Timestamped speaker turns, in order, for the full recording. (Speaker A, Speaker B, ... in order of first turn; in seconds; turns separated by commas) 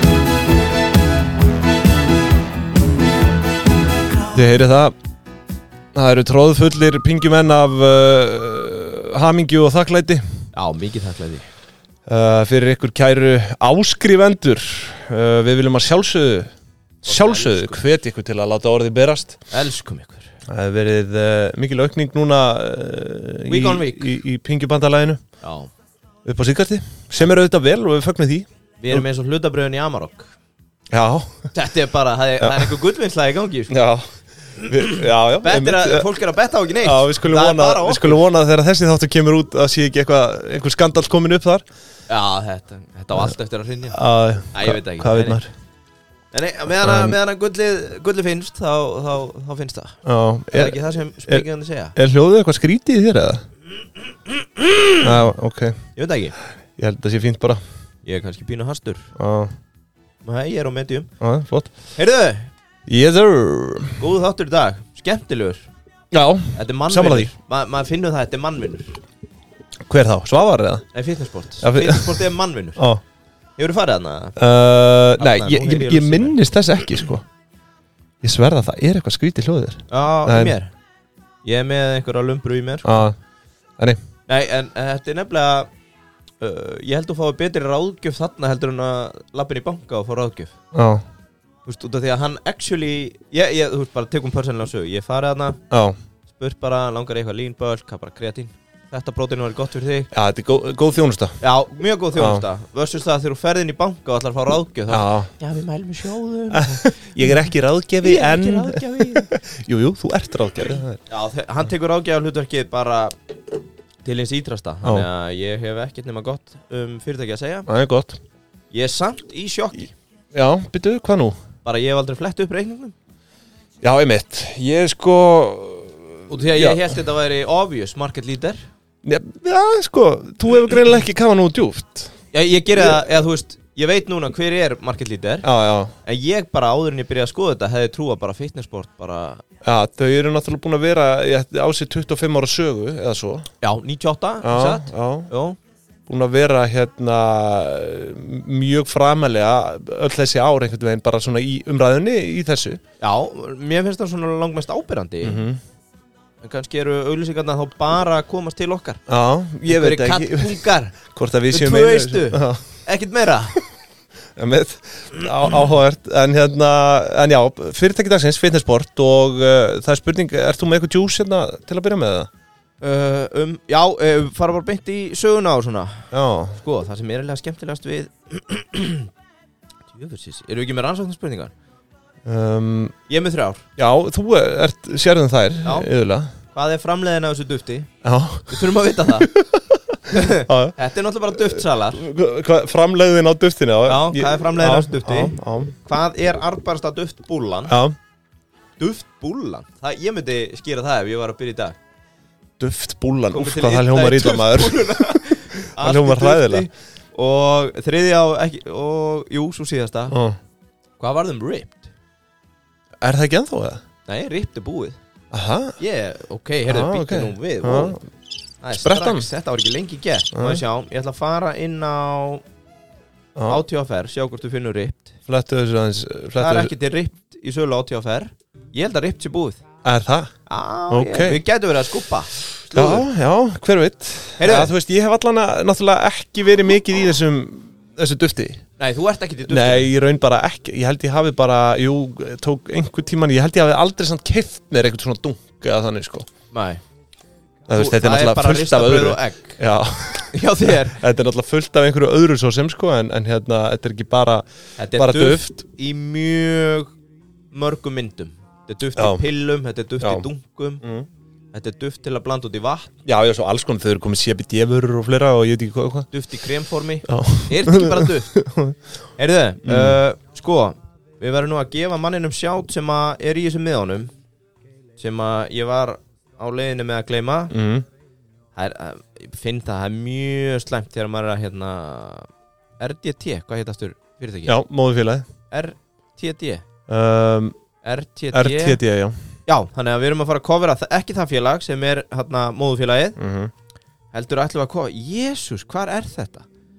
Speaker A: 4.3-5.0, Speaker A: 5.9-10.2, Speaker B: 10.5-11.5, Speaker A: 12.1-16.5, Speaker A: 17.0-19.4, Speaker B: 17.1-17.8, Speaker B: 19.5-20.3, Speaker A: 20.5-25.2, Speaker B: 23.5-24.2, Speaker B: 25.4-25.7, Speaker A: 26.2-29.0, Speaker B: 28.8-30.3, Speaker A: 30.9-31.5, Speaker B: 31.5-33.8, Speaker A: 32.4-32.7, Speaker A: 33.7-36.1, Speaker B: 34.6-38.2, Speaker A: 36.8-41.6, Speaker B: 42.1-44.0, Speaker A: 43.9-45.5, Speaker B: 44.5-45.4, Speaker B: 46.3-50.0, Speaker A: 46.8-47.2, Speaker A: 50.0-51.5, Speaker B: 50.5-52.0, Speaker A: 52.0-53.4, Speaker B: 54.3-55.1, Speaker A: 55.0-55.8, Speaker B: 56.0-56.4, Speaker A: 56.8-57.6, Speaker B: 58.0-59.1, Speaker A: 59.2-59.5, Speaker B: 60.2-61.1, Speaker A: 61.2-61.7, Speaker B: 61.9-62.5, Speaker A: 62.9-64.0, Speaker B: 64.0-65.7, Speaker A: 66.1-67.3, Speaker B: 66.5-69.0, Speaker A: 69.9-70.8, Speaker B: 70.9-72.8, Speaker A: 71.6-73.0, Speaker B: 73.6-74.4, Speaker A: 74.4-77.2, Speaker B: 75.2-76.4, Speaker A: 78.2-80.5, Speaker B: 79.9-80.7, Speaker B: 81.5-83.0, Speaker A: 82.8-83.2, Speaker B: 84.3-85.7, Speaker B: 86.4-90.5, Speaker A: 90.7-91.0, Speaker B: 91.7-95.6, Speaker A: 95.7-96.0, Speaker B: 96.3-100.1, Speaker A: 100.1-101.4, Speaker B: 101.4-107.5, Speaker A: 102.1-102.5, Speaker A: 104.9-105.3, Speaker A: 106.5-111.0, Speaker B: 108.0-109.3, Speaker B: 111.1-113.2, Speaker B: 114.0-117.7, Speaker A: 117.7-118.2, Speaker B: 118.7-119.9, Speaker A: 120.3-121.4, Speaker B: 121.6-123.0, Speaker A: 123.8-127.0, Speaker B: 126.3-128.6, Speaker A: 129.0-132.1, Speaker B: 132.3-135.5, Speaker A: 132.8-133.1, Speaker A: 135.4-135.9, Speaker B: 136.0-139.4, Speaker A: 139.6-143.5, Speaker B: 143.6-145.6, Speaker A: 144.4-145.3, Speaker A: 146.1-152.8, Speaker B: 153.0-155.4, Speaker A: 155.2-155.6, Speaker B: 156.4-159.0, Speaker A: 159.1-160.6, Speaker B: 159.7-161.0, Speaker A: 161.1-162.7, Speaker B: 161.5-163.6, Speaker A: 164.4-172.3, Speaker B: 172.8-179.1, Speaker A: 176.1-176.6, Speaker B: 179.9-181.5, Speaker A: 182.3-182.9, Speaker B: 183.1-183.6, Speaker A: 183.8-186.3, Speaker B: 185.6-185.9, Speaker B: 186.5-187.9, Speaker A: 188.0-190.8, Speaker B: 188.5-189.3, Speaker B: 190.1-192.0, Speaker A: 191.3-195.8, Speaker B: 193.9-195.3, Speaker B: 195.8-197.8, Speaker A: 197.7-198.0, Speaker B: 198.8-201.8, Speaker A: 202.6-206.7, Speaker B: 203.3-210.2, Speaker A: 210.1-210.4, Speaker B: 211.0-211.9, Speaker A: 213.0-213.8, Speaker B: 214.1-215.0, Speaker A: 215.3-215.8, Speaker B: 215.8-218.0, Speaker A: 216.7-218.0, Speaker B: 218.6-222.4, Speaker A: 218.7-219.3, Speaker A: 220.3-220.6, Speaker A: 223.4-223.6, Speaker B: 223.5-225.2, Speaker A: 225.3-226.7, Speaker B: 226.4-229.6, Speaker A: 229.8-230.3, Speaker B: 230.5-233.1, Speaker A: 230.9-231.4, Speaker A: 232.7-238.6, Speaker B: 234.4-234.7, Speaker B: 238.8-239.9, Speaker A: 239.5-246.3, Speaker B: 246.5-246.8, Speaker A: 247.7-255.6, Speaker B: 247.7-249.6, Speaker B: 250.3-251.0, Speaker B: 254.8-256.9, Speaker B: 257.5-260.8, Speaker A: 259.0-259.2, Speaker A: 260.0-260.3, Speaker A: 260.8-261.1, Speaker B: 261.5-262.9, Speaker A: 263.1-266.1, Speaker B: 266.1-268.3, Speaker A: 267.1-268.8, Speaker B: 269.2-274.1, Speaker A: 269.6-270.0, Speaker B: 275.0-277.5, Speaker A: 277.5-277.9, Speaker B: 278.6-282.3, Speaker B: 282.8-284.6, Speaker A: 284.5-285.2, Speaker B: 285.5-286.6, Speaker A: 286.9-287.6, Speaker B: 287.8-288.8, Speaker A: 288.3-289.2, Speaker B: 289.5-293.2, Speaker A: 293.2-293.5, Speaker B: 294.1-296.5